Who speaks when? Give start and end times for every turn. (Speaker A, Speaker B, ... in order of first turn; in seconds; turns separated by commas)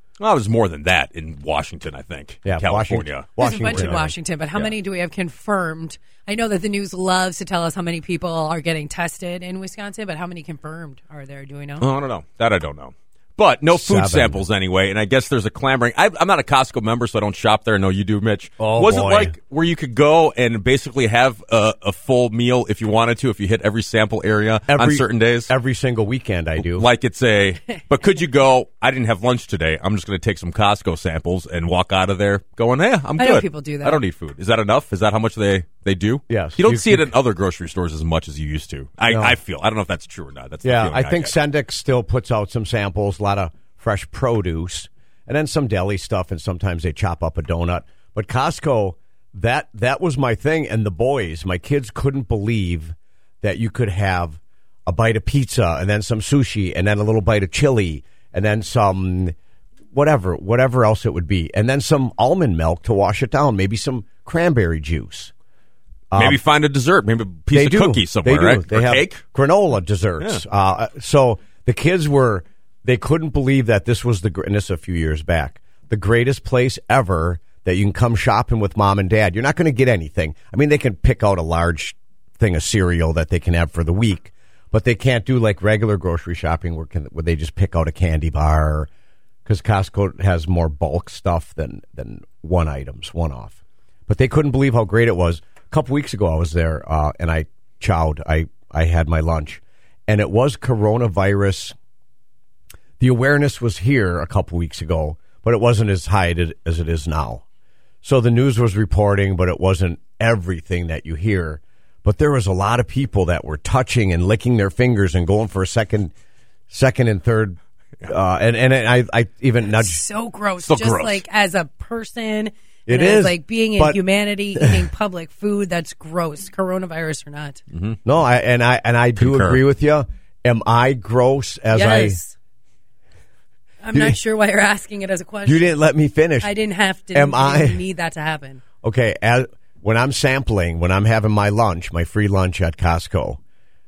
Speaker A: 0.2-3.9, Speaker B: 2.4-4.1, Speaker C: 3.4-11.9, Speaker A: 11.8-25.5, Speaker B: 13.7-14.4, Speaker B: 18.6-19.3, Speaker B: 24.7-26.9, Speaker A: 26.6-41.3, Speaker C: 33.2-34.0, Speaker B: 36.3-37.1, Speaker B: 39.1-39.4, Speaker B: 40.6-59.3, Speaker B: 59.9-65.3, Speaker B: 66.1-66.4, Speaker A: 66.1-69.2, Speaker B: 67.5-88.9, Speaker B: 89.5-93.6, Speaker B: 94.1-101.7, Speaker B: 103.0-107.4, Speaker B: 108.0-116.1, Speaker B: 116.7-120.0, Speaker C: 119.7-127.6, Speaker A: 120.6-121.2, Speaker B: 122.9-124.0, Speaker B: 124.5-124.9, Speaker A: 127.7-128.0, Speaker B: 128.0-132.2, Speaker A: 129.2-129.6, Speaker C: 131.7-132.3, Speaker C: 133.8-135.8, Speaker B: 135.4-136.5, Speaker C: 136.4-138.6, Speaker B: 137.1-137.8, Speaker B: 138.8-143.4